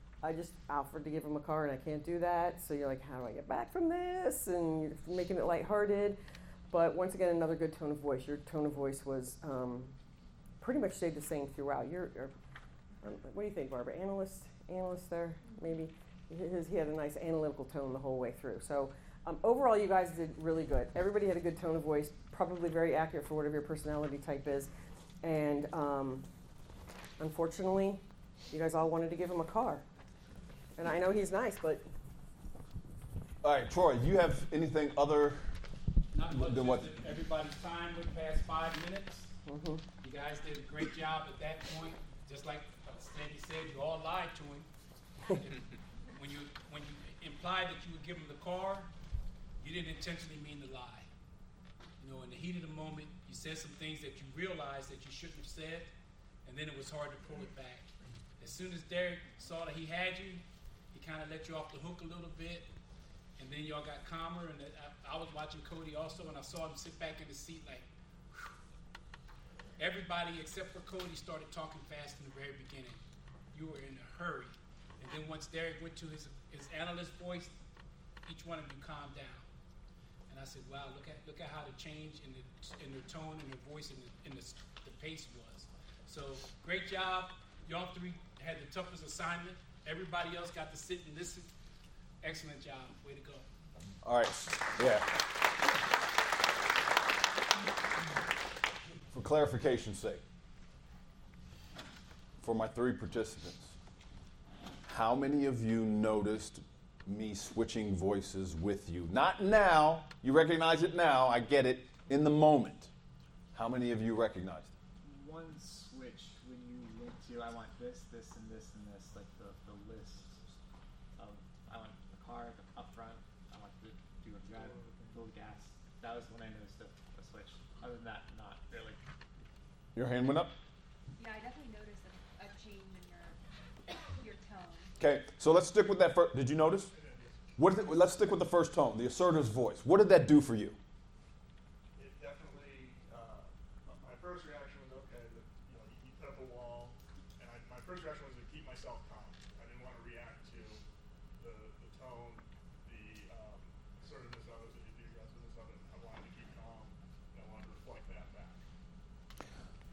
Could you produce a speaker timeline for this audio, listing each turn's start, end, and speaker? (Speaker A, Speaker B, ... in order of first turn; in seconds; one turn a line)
Speaker A: 0.2-6.2
Speaker A: 6.7-9.9
Speaker A: 10.6-12.3
Speaker A: 13.0-24.7
Speaker A: 25.2-26.2
Speaker A: 27.2-29.8
Speaker A: 30.8-31.8
Speaker B: 33.4-35.5
Speaker C: 36.1-39.3
Speaker B: 36.3-37.0
Speaker A: 39.5-39.8
Speaker C: 40.0-44.7
Speaker C: 45.4-45.6
Speaker C: 46.1-48.9
Speaker C: 49.6-51.1
Speaker C: 52.0-55.9
Speaker C: 56.5-57.9
Speaker C: 58.4-62.7
Speaker C: 63.4-68.5
Speaker C: 69.8-73.0
Speaker C: 73.5-77.6
Speaker C: 78.2-79.5
Speaker C: 80.3-91.5
Speaker C: 92.2-93.5
Speaker B: 94.0-95.1
Speaker B: 99.1-100.2
Speaker B: 102.4-103.8
Speaker B: 104.9-112.9
Speaker B: 113.5-114.7
Speaker D: 115.0-120.4
Speaker D: 121.2-129.0
Speaker B: 129.9-130.5
Speaker E: 131.2-134.9
Speaker B: 135.0-136.9
Speaker F: 136.9-137.4
Speaker B: 137.6-140.8
Speaker F: 142.0-150.8
Speaker F: 151.4-158.6